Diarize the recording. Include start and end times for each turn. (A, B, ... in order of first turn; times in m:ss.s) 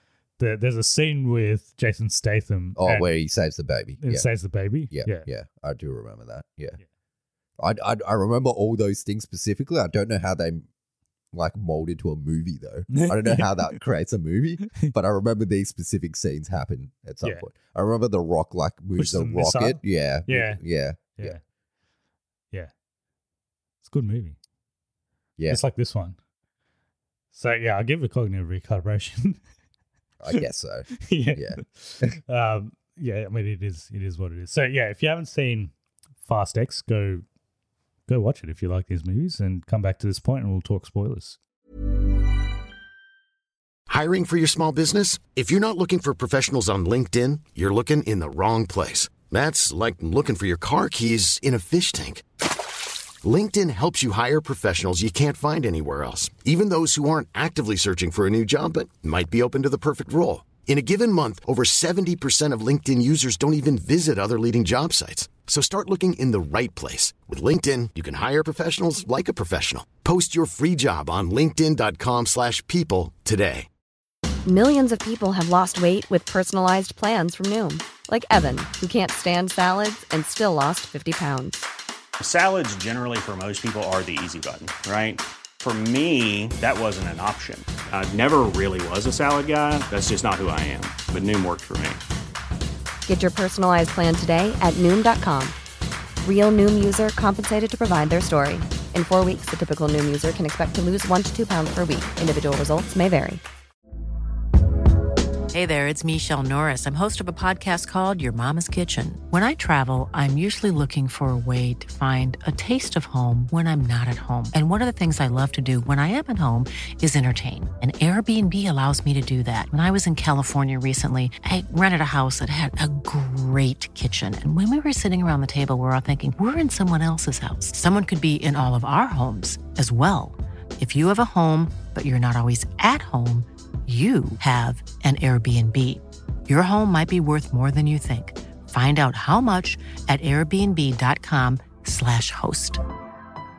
0:00.4-0:03.1 A
0:02.8-0:04.3 B
0:04.0-0:05.3 A
0:04.9-0:06.8 B
0:07.6-0:10.7 B
0:11.3-0:21.4 B
0:12.9-0:13.8 A
0:19.0-0:20.6 A
0:21.2-0:21.4 A
0:23.8-0:24.4 A
0:25.5-0:26.2 A
0:27.3-0:29.4 A
0:30.2-0:32.2 B
0:30.3-0:35.7 A
0:36.2-0:37.2 A
0:38.1-0:41.4 A
0:43.9-0:52.2 C
0:53.2-1:13.7 C
1:14.4-1:21.7 D
1:22.2-1:32.0 E
1:33.1-1:35.6 D
1:36.2-1:43.4 D
1:45.5-2:22.8 F